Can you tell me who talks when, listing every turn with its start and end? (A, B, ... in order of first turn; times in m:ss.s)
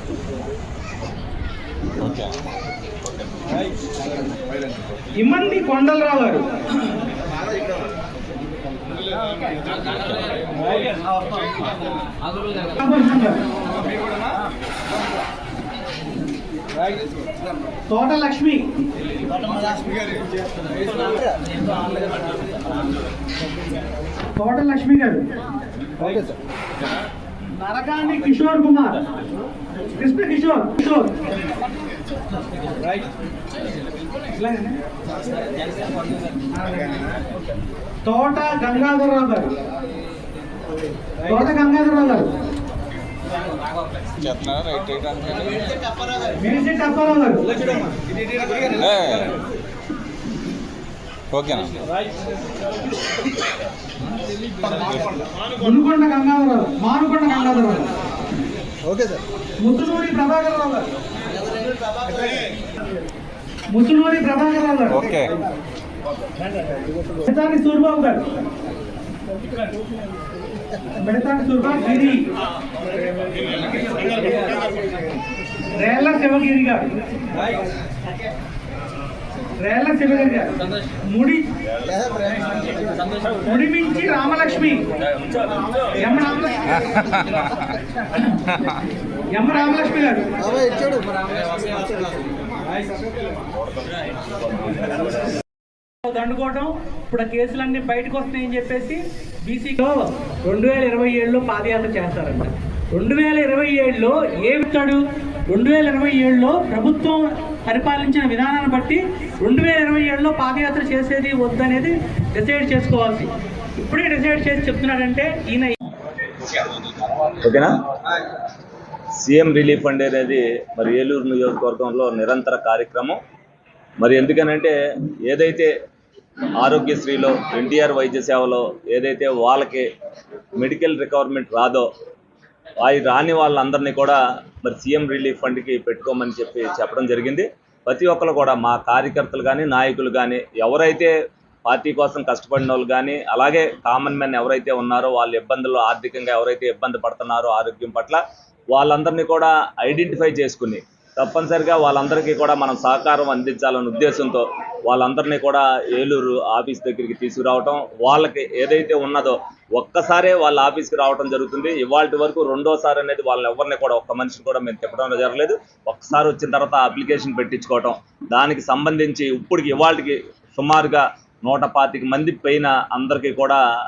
0:02.0-0:02.3 A
0:05.2-0:06.5 B
0:09.9-0:10.4 A
0:12.8-0:13.4 B
0:17.9-0:18.6 B
0:24.4-0:25.3 B
0:27.5-0:29.0 B
0:30.0-0:31.2 B
0:34.3-0:34.8 B
0:38.0-0:39.6 B
0:41.2-0:42.3 B
0:44.2-0:45.7 A
0:46.4-0:47.6 B
0:48.7-0:49.3 A
0:51.3-0:51.8 A
0:54.8-0:55.0 A
0:55.6-0:57.9 B
0:59.6-1:00.9 B
1:03.7-1:05.1 B
1:05.0-1:05.4 A
1:07.2-1:08.3 B
1:11.0-1:12.3 B
1:14.1-1:14.4 B
1:15.7-1:16.9 B
1:19.6-1:21.5 B
1:23.4-1:24.8 B
1:25.0-1:26.0 C
1:26.0-1:26.8 B
1:26.9-1:27.2 C
1:29.3-1:30.8 B
1:33.6-1:35.4 C
1:36.0-1:55.8 B
1:57.4-1:57.7 C
1:59.2-2:03.2 C
2:04.0-2:04.8 C
2:05.3-2:05.7 C
2:06.6-2:09.9 C
2:10.6-2:11.9 C
2:12.8-2:21.1 C
2:21.7-2:28.2 C
2:28.7-2:53.6 C